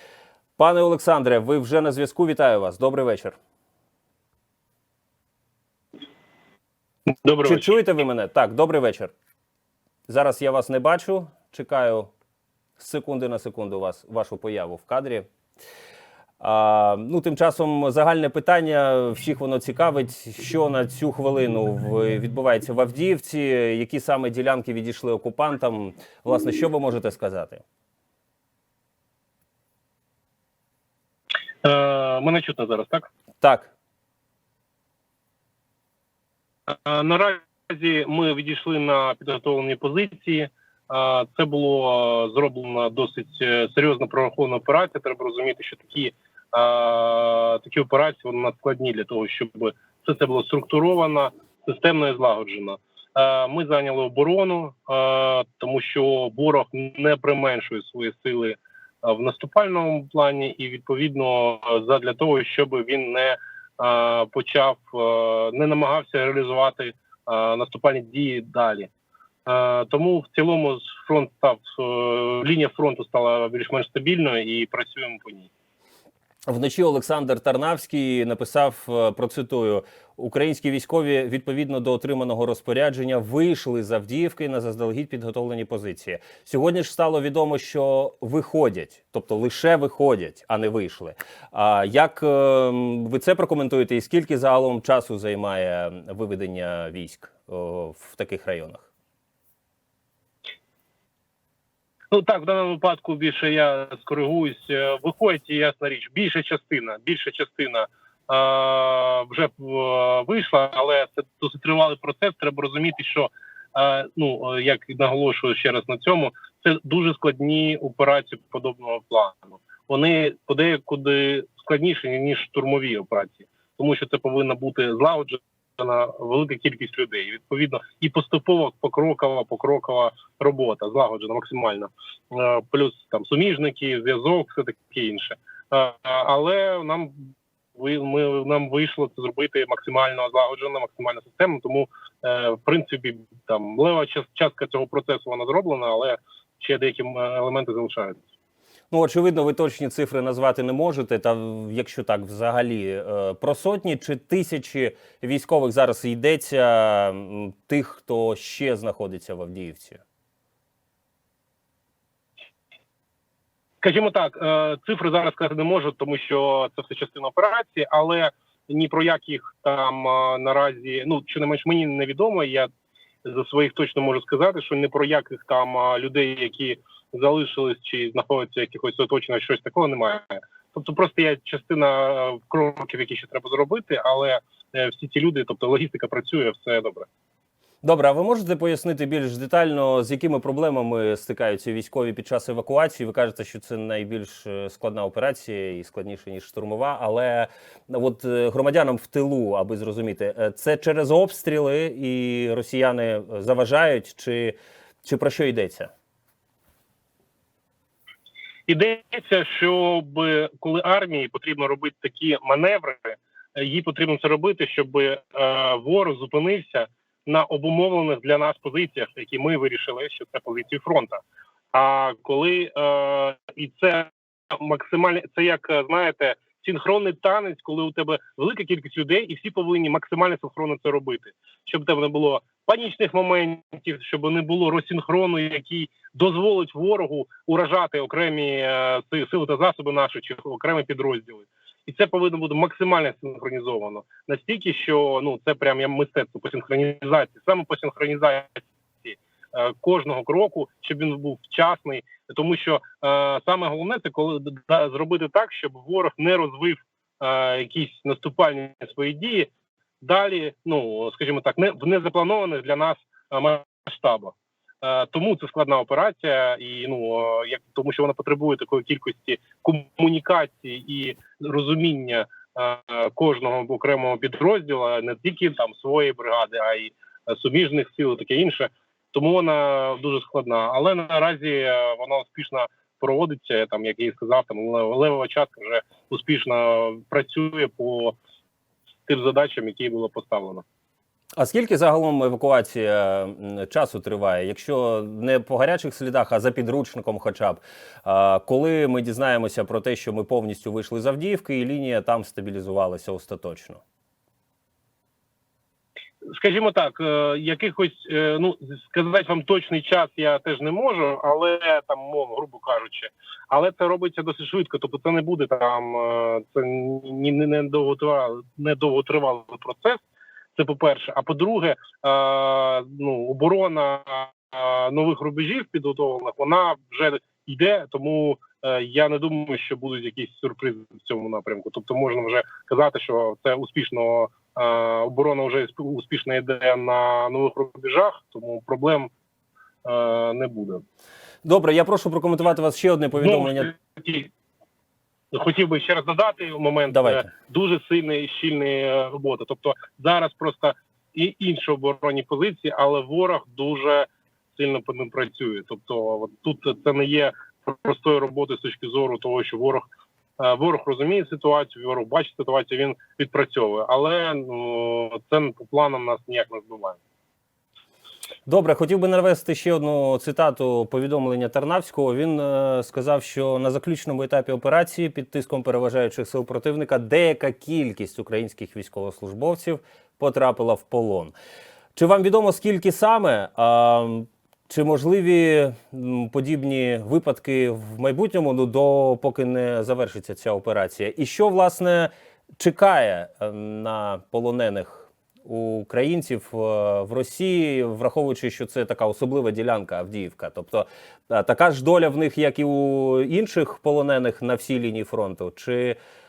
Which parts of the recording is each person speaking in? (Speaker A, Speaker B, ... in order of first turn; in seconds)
Speaker A: 0.6-3.4, 7.4-9.1, 10.1-12.1, 12.8-15.3, 16.4-27.6, 33.4-33.7, 76.5-98.9, 148.9-160.0, 187.8-205.9, 291.4-303.8, 341.4-343.7, 346.9-347.2, 368.5-381.3, 381.9-406.0
Speaker B: 7.2-7.7, 31.6-33.1, 36.7-68.9, 69.5-75.5, 102.1-148.2, 163.8-172.7, 173.2-187.1, 208.7-221.2, 221.7-259.5, 260.0-288.1, 289.1-290.6, 306.3-320.0, 320.6-339.1, 339.8-340.8, 343.2-344.3, 345.3-359.8, 360.4-367.0